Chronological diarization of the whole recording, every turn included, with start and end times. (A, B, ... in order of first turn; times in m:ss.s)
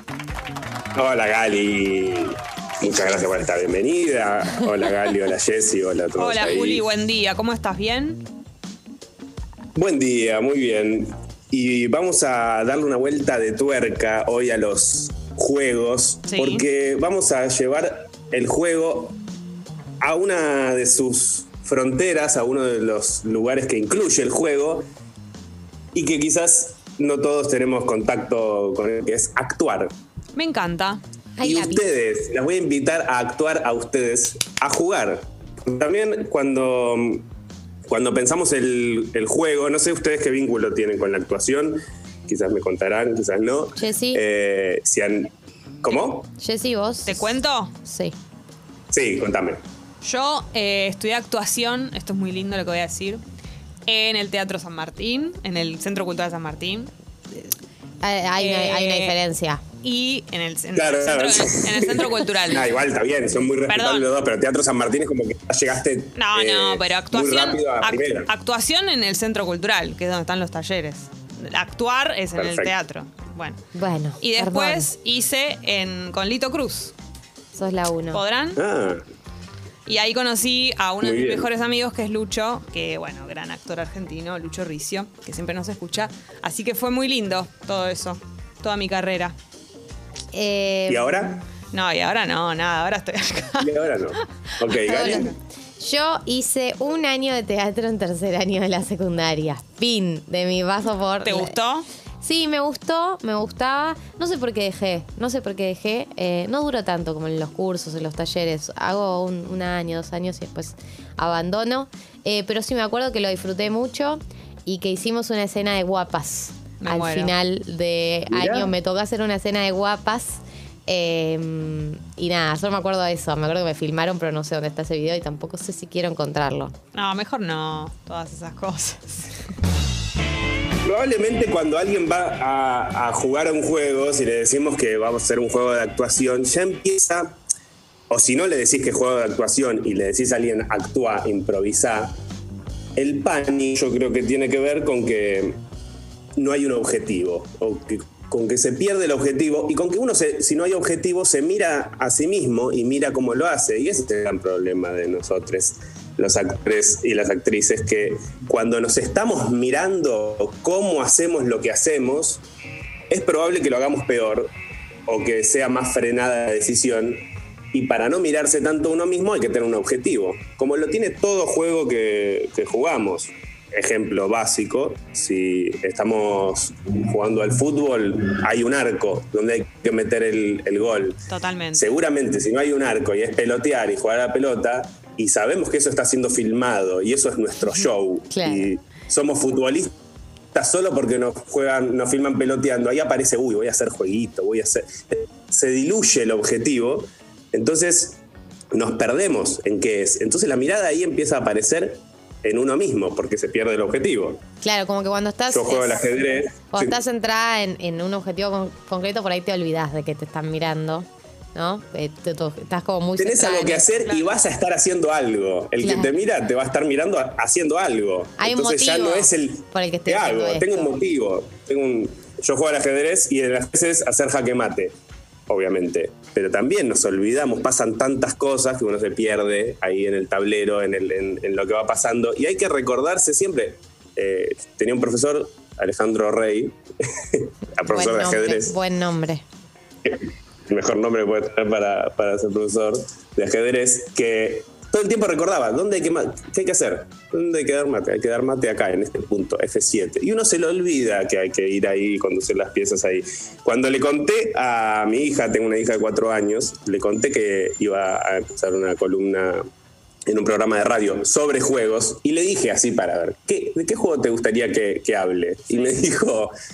0:00.9-0:06.9 A
0:06.2-0:08.2 B
0:09.7-0:19.2 A
0:16.3-0:16.6 B
0:20.0-0:24.8 A
0:25.9-0:29.9 A
0:30.3-0:31.0 B
0:31.4-0:31.8 C
0:31.4-0:37.3 A
0:37.9-0:45.3 A
0:43.8-0:44.2 C
0:45.8-0:46.3 A
0:46.4-0:47.2 C
0:47.1-0:47.7 B
0:47.8-0:48.1 C
0:48.9-0:49.6 A
0:50.0-0:53.2 B
0:53.8-0:56.9 B
0:58.0-0:59.6 C
0:58.4-0:59.2 B
0:59.8-1:02.7 B
1:00.7-1:08.3 A
1:03.7-1:04.1 B
1:06.1-1:13.6 B
1:12.3-1:12.7 A
1:13.7-1:14.9 C
1:14.2-1:16.9 B
1:17.5-1:18.2 C
1:18.1-1:18.6 B
1:18.6-1:19.0 A
1:19.8-1:29.3 B
1:21.0-1:21.5 A
1:30.3-1:31.4 C
1:30.9-1:31.4 A
1:31.7-1:33.7 B
1:33.6-1:35.3 A
1:34.6-1:35.3 B
1:34.8-1:41.5 C
1:41.2-1:41.9 B
1:42.2-2:06.7 C
1:56.8-1:57.3 B
1:58.3-1:58.7 A
2:06.9-2:09.3 B
2:10.8-2:17.4 A
2:18.1-2:22.2 A
2:23.0-2:25.6 A
2:26.4-2:42.4 A
2:43.1-2:44.5 A
2:45.0-3:01.2 A
3:01.3-3:01.8 B
3:01.7-3:09.9 A
3:08.3-3:08.7 C
3:10.5-3:18.2 A
3:18.7-3:24.4 A
3:24.6-3:33.9 C
3:25.5-3:27.0 A
3:33.2-3:44.9 A
3:34.0-3:34.4 B
3:35.8-3:36.1 C
3:38.4-3:40.9 C
3:45.5-3:58.8 A
3:57.8-3:59.4 C
4:00.0-4:19.6 A
4:20.2-4:26.5 A
4:25.7-4:26.0 B